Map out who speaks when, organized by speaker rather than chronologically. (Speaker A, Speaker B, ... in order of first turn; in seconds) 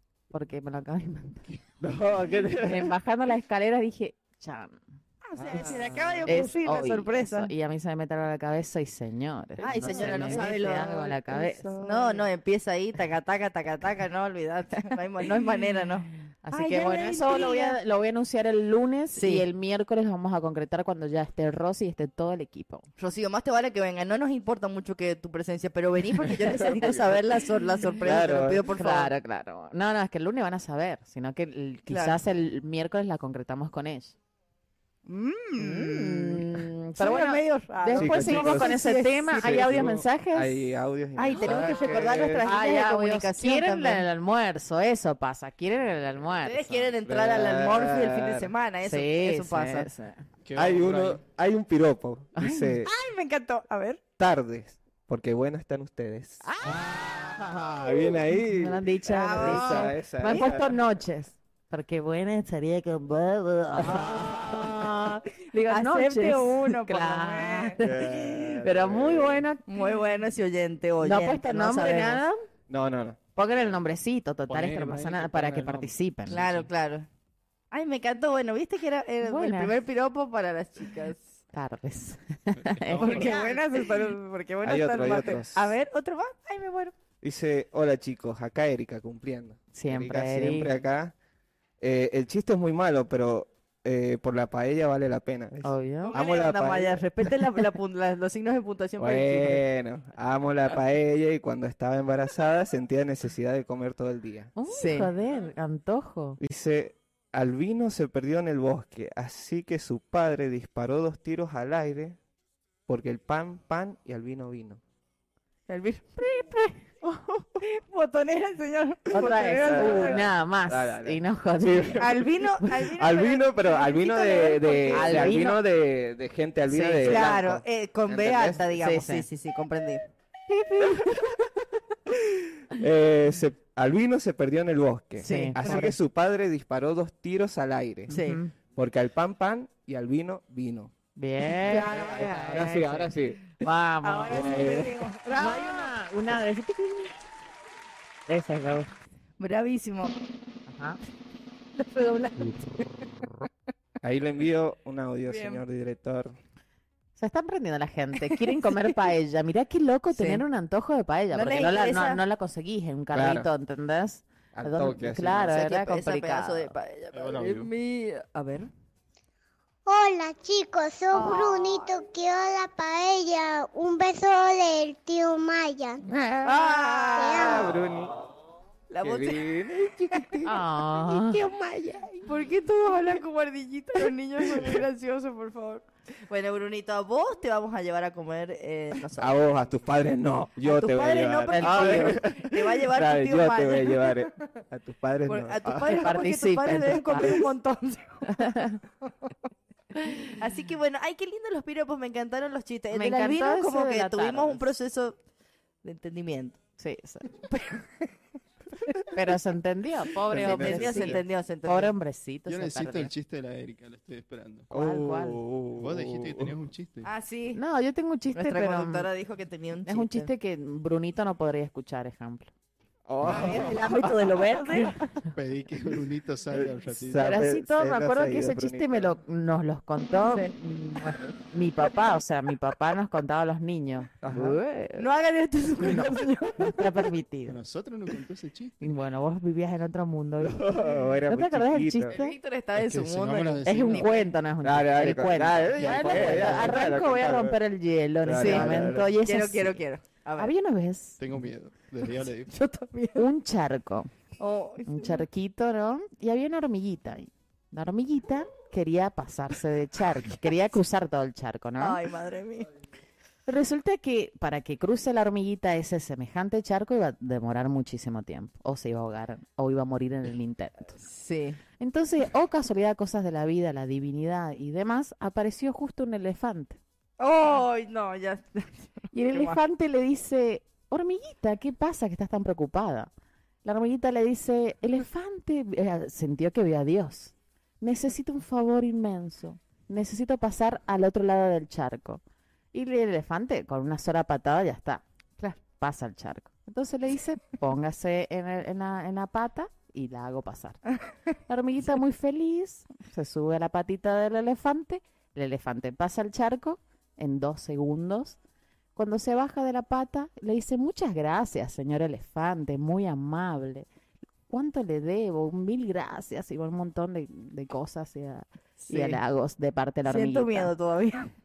Speaker A: 0.3-1.6, 2.6-4.8, 6.2-12.2, 16.4-22.9, 28.8-34.1, 35.6-40.6, 42.4-46.9, 48.8-50.2, 52.4-52.7, 56.4-69.6, 71.0-72.4, 73.3-76.4, 79.2-79.7, 81.5-83.4, 89.7-90.7, 95.6-96.2, 104.6-106.4, 119.1-122.2, 124.9-125.6, 126.7-127.3, 128.8-129.2, 135.2-135.9, 138.1-138.5, 141.2-143.1, 143.6-147.1, 148.3-148.9, 150.7-151.0, 157.2-166.7, 180.4-181.4, 191.5-192.2, 195.9-197.5, 198.3-198.8, 202.9-204.7, 206.8-207.3, 209.1-213.1, 214.7-215.4, 217.5-219.1, 219.8-222.5, 227.2-235.0, 236.6-237.6, 238.8-240.6, 241.3-242.3, 243.7-249.8, 250.4-251.2, 253.2-254.1, 254.9-262.0, 263.5-271.0, 271.8-276.8, 279.1-283.1, 283.6-292.2, 292.7-295.0, 295.6-300.8, 301.5-308.4, 308.9-313.9, 314.5-320.7
Speaker B: 1.8-2.9, 5.4-6.4, 9.7-10.7, 11.5-11.8, 26.4-27.2, 28.0-28.6, 37.9-38.8, 39.4-42.4, 47.0-48.5, 50.5-52.9, 54.2-60.7, 63.8-64.8, 67.8-69.4, 72.7-73.2, 84.6-85.7, 87.2-91.1, 91.8-97.0, 99.0-104.5, 106.4-112.2, 112.9-114.8, 119.6-122.3, 122.8-128.6, 132.2-138.2, 138.7-140.9, 141.6-143.4, 144.3-144.9, 154.0-156.4, 163.1-163.5, 164.5-165.6, 176.5-178.1, 179.0-180.5, 189.2-196.0, 210.3-211.2, 214.7-216.6, 223.1-224.3, 226.5-229.1, 234.2-234.6, 240.4-242.1, 244.6-247.6, 248.2-249.1
Speaker C: 5.2-7.5, 9.6-17.8, 19.1-19.4, 23.0-29.1, 31.9-32.2, 35.0-39.8, 41.1-44.0, 46.4-49.9, 52.8-54.0, 59.1-60.5, 65.6-67.8, 69.7-72.2, 76.3-77.1, 77.7-81.4, 83.0-86.9, 96.0-99.6, 104.7-105.1, 115.7-116.5, 117.6-120.2, 122.0-125.4, 127.0-131.0, 135.2-135.8, 138.1-138.4, 141.6-142.8, 144.0-145.9, 149.4-150.1, 151.8-152.9, 155.3-155.6, 158.3-158.8, 160.1-160.4, 161.3-162.2, 165.5-168.7, 171.1-171.9, 176.4-177.8, 178.9-179.4, 180.1-189.4, 190.6-194.2, 195.3-198.5, 200.2-205.2, 205.8-206.6, 210.4-211.9, 217.0-217.6, 218.3-220.3, 223.2-225.1, 230.2-231.2, 235.0-236.8, 242.1-244.2, 248.3-250.5, 252.5-253.2, 254.4-255.2, 261.8-262.7, 271.0-271.6, 277.2-279.6, 318.8-319.2, 320.0-321.3
Speaker D: 50.4-51.2, 74.5-76.7, 82.6-83.6, 167.1-167.7, 212.5-214.7, 215.8-217.1, 225.3-227.3, 235.8-236.1, 237.5-238.7, 242.7-244.1, 245.8-246.8, 251.2-252.5
Speaker E: 169.8-176.0, 177.2-177.6